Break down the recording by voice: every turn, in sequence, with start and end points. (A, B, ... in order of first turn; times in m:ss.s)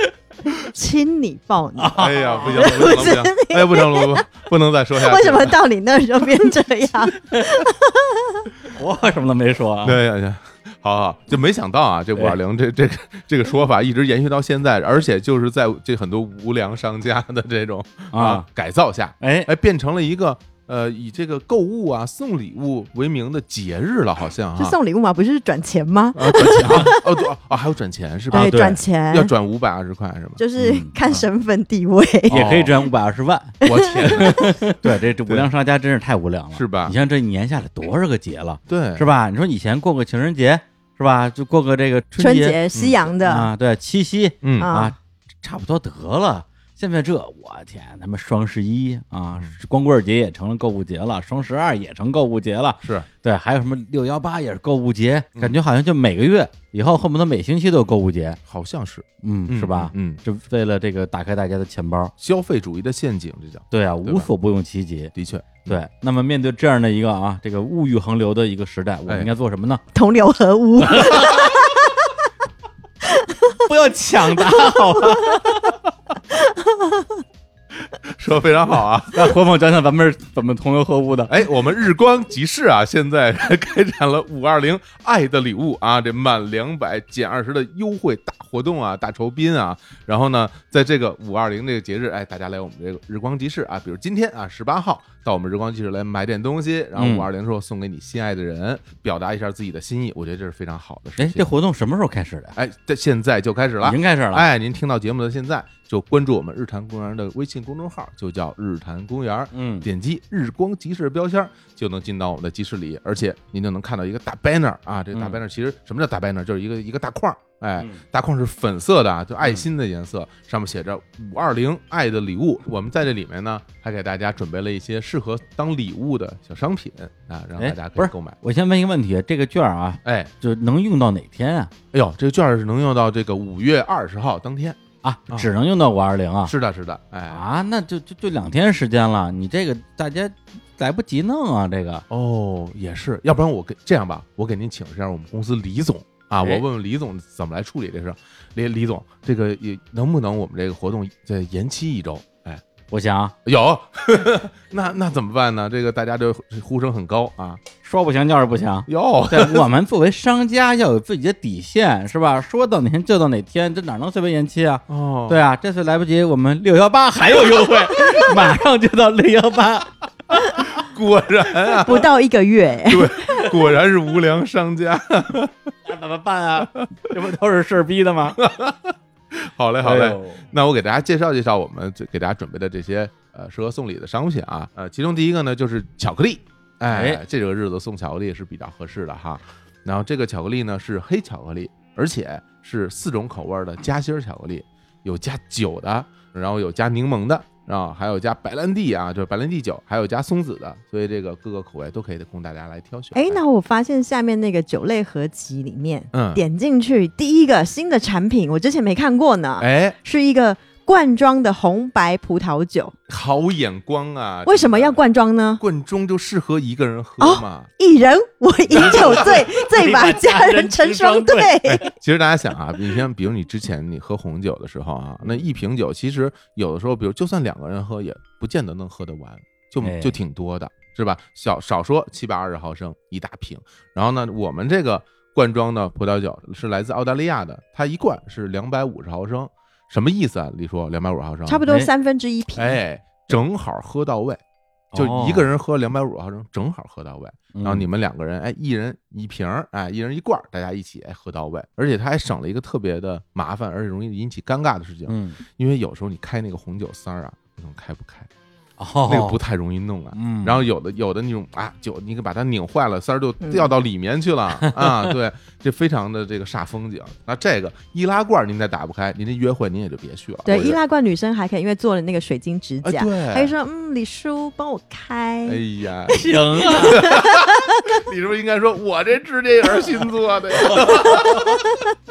0:00.6-0:04.3 A
0:01.8-0:03.2 B
0:02.0-0:05.6 C
0:05.0-0:08.5 A
0:07.3-0:07.6 B
0:08.7-0:10.0 B
0:09.8-0:24.8 C
0:18.1-0:18.5 B
0:19.2-0:19.5 B
0:24.6-0:27.2 A
0:26.2-0:30.5 C
0:26.2-0:26.9 B
0:28.3-0:29.3 A
0:28.3-0:28.8 B
0:30.4-0:32.6 A
0:30.6-0:30.9 B
0:32.3-0:42.6 B
0:32.3-0:32.7 C
0:33.6-0:35.5 C
0:33.6-0:34.3 A
0:36.5-0:37.0 C
0:38.7-0:39.1 C
0:42.2-0:43.5 A
0:42.7-0:43.0 C
0:43.2-0:58.4 B
0:44.4-0:44.7 C
0:44.6-0:44.9 A
0:52.8-0:53.1 C
0:58.5-1:00.2 C
0:59.2-1:02.1 B
1:02.2-1:04.3 C
1:03.7-1:05.1 B
1:05.2-1:05.8 C
1:05.6-1:09.8 B
1:09.9-1:12.0 A
1:10.8-1:11.5 B
1:11.1-1:11.4 C
1:13.0-1:13.6 A
1:13.6-1:15.7 B
1:14.4-1:15.4 A
1:16.3-1:17.2 A
1:17.8-1:19.3 C
1:19.1-1:21.4 B
1:21.3-1:41.4 C
1:37.0-1:37.3 B
1:41.2-1:42.6 B
1:42.6-2:08.4 C
1:43.8-1:44.4 B
1:49.5-1:49.9 B
1:55.1-1:55.4 B
2:07.6-2:11.7 B
2:10.0-2:10.3 C
2:11.9-2:14.8 C
2:15.0-2:16.5 B
2:16.5-2:17.4 C
2:17.3-2:22.0 B
2:22.1-2:32.6 C
2:32.9-2:33.4 B
2:33.4-2:37.6 C
2:37.8-2:49.9 B
2:38.9-2:39.7 C
2:44.9-2:45.4 C
2:50.7-2:52.1 C
2:51.8-2:53.4 A
2:52.8-2:55.6 C
2:55.9-2:58.4 B
2:58.4-3:23.4 C
2:59.8-3:00.4 B
3:06.9-3:07.2 B
3:23.2-3:32.9 A
3:26.1-3:26.4 C
3:29.6-3:30.0 C
3:33.1-3:35.0 C
3:34.5-3:35.6 A
3:35.6-3:37.7 C
3:37.2-3:41.9 A
3:38.7-3:39.5 C
3:38.7-3:41.9 B
3:41.6-4:01.6 C
3:49.8-3:50.2 B
4:01.5-4:02.8 A
4:02.6-4:04.4 C
4:04.9-4:05.5 B
4:04.9-4:18.3 C
4:07.5-4:07.9 B
4:15.1-4:15.4 B
4:18.8-4:19.4 B
4:19.1-4:30.8 C
4:20.1-4:20.7 B
4:23.4-4:23.7 A
4:24.6-4:25.1 B
4:30.4-4:35.6 A
4:32.8-4:33.5 C
4:35.4-4:41.6 C
4:36.1-4:37.0 B
4:36.2-4:38.0 A
4:40.8-4:41.8 A